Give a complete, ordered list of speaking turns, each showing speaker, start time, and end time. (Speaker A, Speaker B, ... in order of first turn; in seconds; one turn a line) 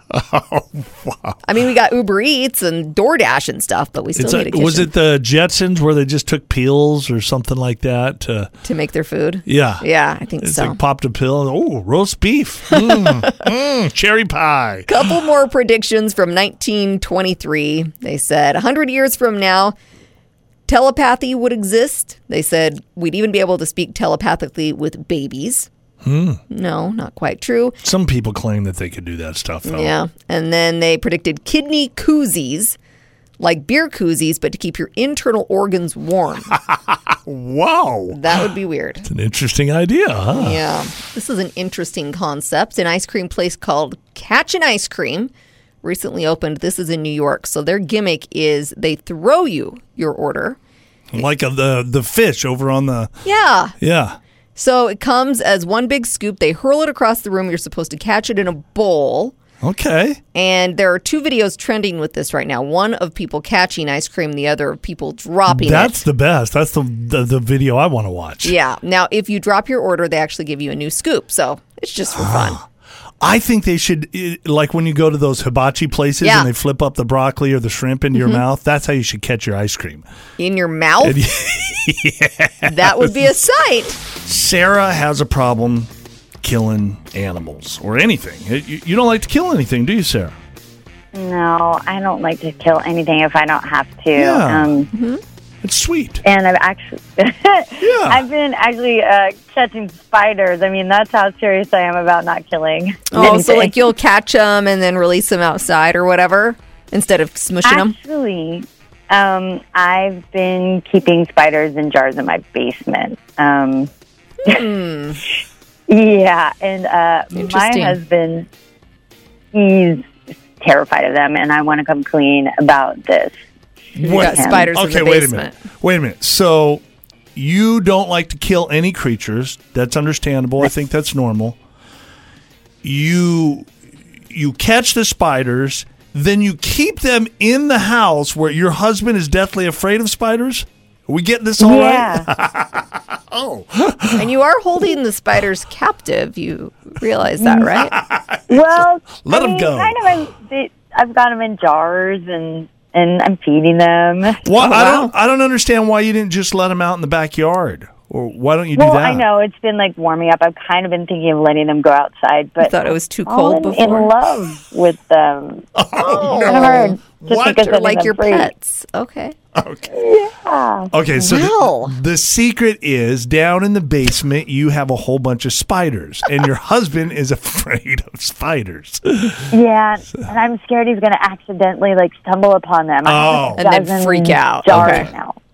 Speaker A: 0.1-1.4
Speaker B: 1.4-4.9
Speaker A: 4.2-8.5
Speaker B: 8.6-10.8
Speaker A: 9.4-9.8
Speaker A: 10.4-15.2
Speaker B: 12.7-13.4
Speaker B: 14.9-19.7
Speaker B: 20.7-25.7
Speaker A: 26.0-26.4
Speaker B: 26.5-27.8
Speaker A: 27.8-29.9
Speaker B: 29.6-32.8
Speaker B: 33.4-36.5
Speaker A: 36.5-38.4
Speaker B: 38.1-39.1
Speaker A: 39.0-40.6
Speaker B: 40.4-45.3
Speaker B: 45.8-50.6
Speaker A: 51.1-53.1
Speaker B: 53.2-53.7
Speaker A: 53.8-54.2
Speaker B: 54.5-59.3
Speaker A: 59.6-60.2
Speaker B: 60.3-66.0
Speaker A: 65.5-68.5
Speaker B: 68.4-72.6
Speaker A: 72.1-72.6
Speaker A: 73.2-80.0
Speaker B: 76.2-76.5
Speaker B: 78.1-78.4
Speaker B: 80.4-81.2
Speaker A: 81.0-83.3
Speaker B: 82.6-84.0
Speaker A: 84.2-85.9
Speaker A: 86.4-90.3
Speaker C: 91.1-94.9
Speaker A: 94.1-94.8
Speaker B: 94.9-95.2
Speaker A: 95.6-96.2
Speaker C: 96.2-103.9
Speaker A: 97.8-98.2
Speaker B: 103.1-107.9
Speaker C: 107.6-113.9
Speaker B: 114.4-115.2
Speaker C: 115.9-118.5
Speaker B: 117.3-118.0
Speaker C: 119.5-120.0
Speaker C: 120.6-123.3
Speaker A: 124.0-126.8
Speaker B: 124.0-125.6
Speaker C: 124.0-124.7
Speaker A: 127.3-131.6
Speaker A: 132.8-133.7
Speaker A: 134.3-144.2
Speaker C: 141.6-142.3
Speaker B: 144.2-147.9
Speaker A: 147.8-150.2
Speaker C: 148.5-154.4
Speaker A: 154.4-159.2
Speaker B: 154.6-155.1
Speaker C: 158.7-165.6
Speaker B: 162.6-164.1
Speaker A: 165.7-167.6
Speaker B: 166.0-169.3
Speaker C: 166.3-168.5
Speaker A: 169.5-169.9
Speaker C: 169.9-170.9
Speaker A: 170.9-179.5
Speaker B: 171.2-171.9
Speaker C: 179.5-185.3
Speaker A: 183.0-183.7
Speaker B: 183.6-185.1
Speaker A: 184.7-185.1